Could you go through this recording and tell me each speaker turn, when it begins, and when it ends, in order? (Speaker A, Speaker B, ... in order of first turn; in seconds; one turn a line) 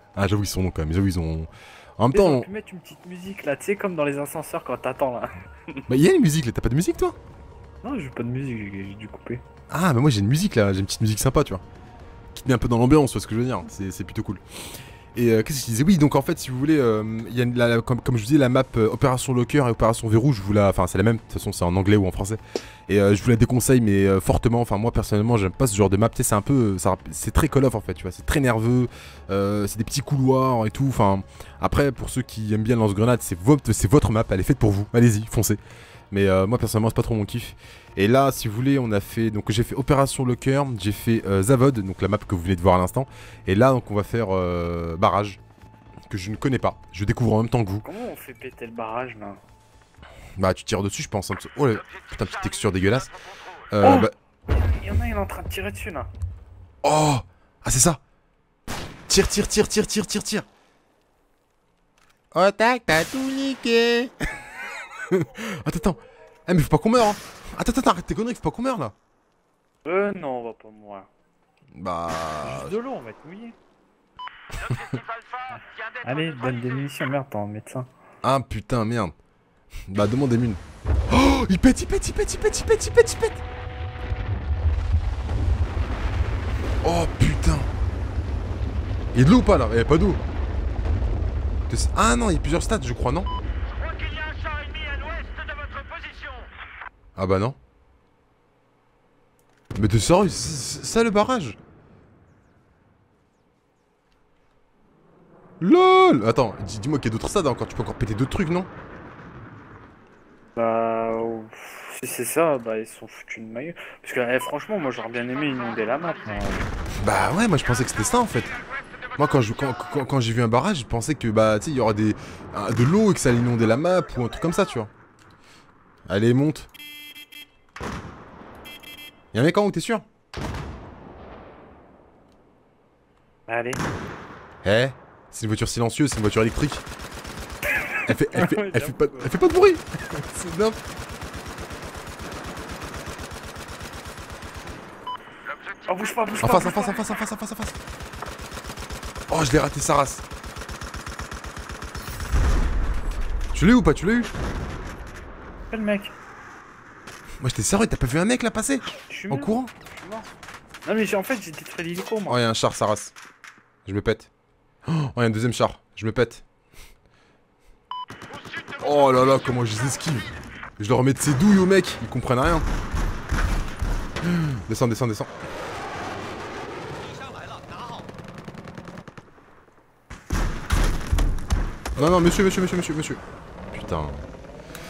Speaker A: 0.1-2.5
Speaker B: 2.1-5.8
Speaker A: 5.9-7.2
Speaker B: 7.8-9.4
Speaker A: 9.7-11.6
Speaker A: 12.3-35.6
Speaker A: 36.1-45.4
Speaker A: 46.1-47.9
Speaker B: 47.8-49.4
Speaker A: 50.4-53.1
Speaker A: 53.7-54.1
Speaker B: 53.8-56.1
Speaker A: 56.8-58.0
Speaker A: 59.1-60.5
Speaker A: 62.3-68.9
Speaker B: 69.8-71.1
Speaker A: 71.7-72.8
Speaker B: 72.4-73.5
Speaker B: 75.5-77.9
Speaker A: 78.2-79.1
Speaker A: 79.9-83.4
Speaker A: 86.8-87.7
Speaker A: 89.1-90.2
Speaker A: 91.7-93.3
Speaker A: 97.2-97.6
Speaker A: 99.7-101.6
Speaker A: 105.6-108.7
Speaker B: 110.5-116.7
Speaker A: 117.0-118.6
Speaker A: 119.2-124.9
Speaker A: 126.1-126.7
Speaker A: 129.3-130.0
Speaker B: 133.5-133.8
Speaker A: 134.6-136.8
Speaker B: 137.7-139.3
Speaker A: 138.1-140.8
Speaker B: 145.9-147.2
Speaker A: 146.4-147.8
Speaker A: 149.3-150.2
Speaker A: 153.5-154.3
Speaker B: 155.7-156.1
Speaker A: 157.4-159.7
Speaker B: 159.1-160.3
Speaker B: 160.8-162.4
Speaker A: 162.3-163.1
Speaker A: 163.8-164.3
Speaker A: 164.8-166.4
Speaker A: 168.8-172.7
Speaker A: 174.2-175.3
Speaker A: 181.9-184.2